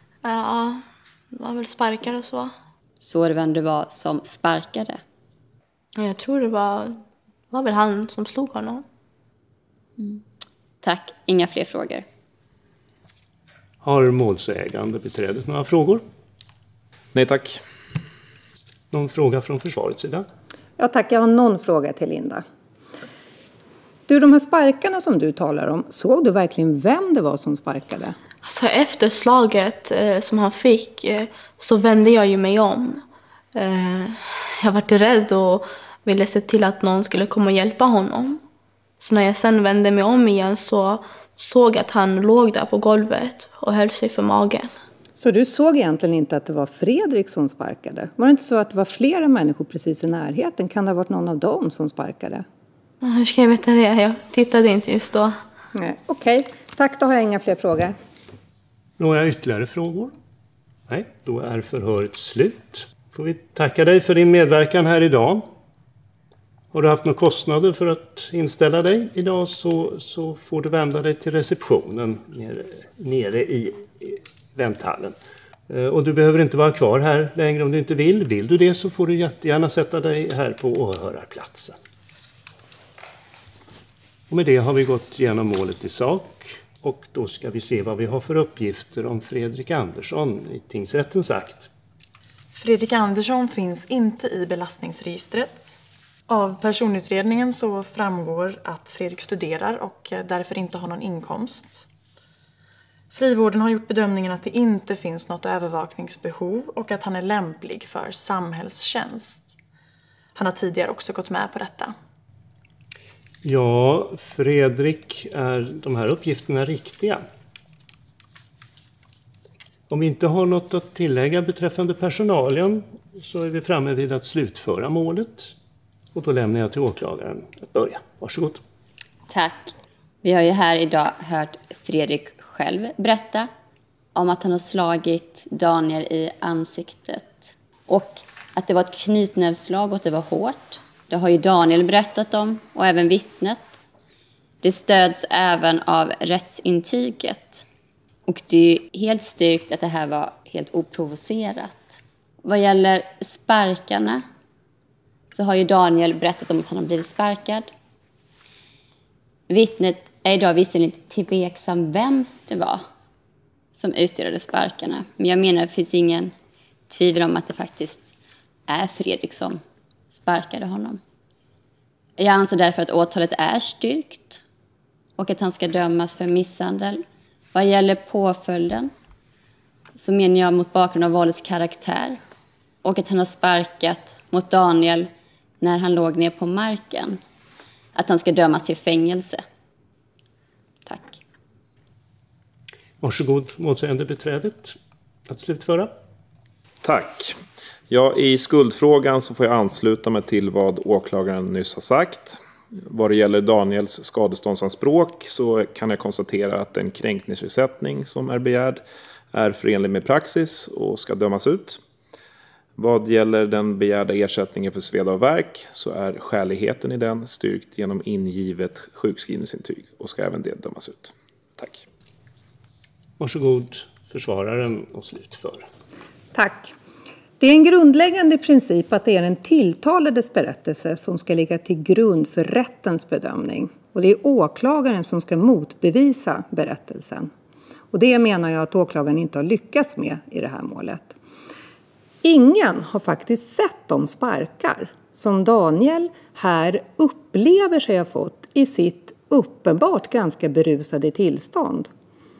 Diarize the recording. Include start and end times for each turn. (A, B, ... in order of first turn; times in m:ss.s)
0:00.2-0:02.5 A
0:03.0-0:05.0 B
0:06.0-0:08.8 A
0:10.8-0:12.0 B
0:13.8-0:16.0 C
0:17.1-0:17.6 D
0:18.9-0:20.2 C
0:20.8-0:22.4 E
0:24.1-0:28.2 E
0:28.4-0:38.4 A
0:39.0-0:44.7 A
0:45.2-0:52.4 E
0:53.0-0:55.4 A
0:55.7-0:58.0 E
0:59.0-1:00.1 C
1:00.9-1:05.4 C
1:06.7-1:15.2 C
1:15.7-1:21.8 C
1:24.3-1:31.7 C
1:32.5-1:41.9 F
1:43.1-1:49.6 F
1:50.3-1:51.9 F
1:53.4-1:57.2 C
1:59.9-2:05.5 C
2:06.1-2:08.6 C
2:09.3-2:09.7 B
2:10.2-2:13.5 B
2:14.1-2:23.8 B
2:24.6-2:27.6 B
2:28.2-2:31.8 B
2:32.4-2:34.2 B
2:35.3-2:37.7 B
2:39.5-2:42.8 B
2:43.7-2:46.3 B
2:46.9-2:48.1 B
2:48.7-2:51.0 B
2:52.2-2:54.4 B
2:55.2-2:57.0 B
2:57.5-2:58.9 B
2:59.9-3:02.2 B
3:02.8-3:05.1 B
3:05.6-3:07.2 B
3:07.9-3:09.4 B
3:10.8-3:11.2 B
3:13.0-3:14.8 C
3:15.3-3:15.9 C
3:16.8-3:28.8 D
3:29.3-3:31.8 D
3:32.8-3:41.8 D
3:43.2-3:45.7 C
3:46.3-3:46.7 E
3:47.4-3:57.3 E
3:57.9-4:01.1 E
4:02.2-4:11.9 E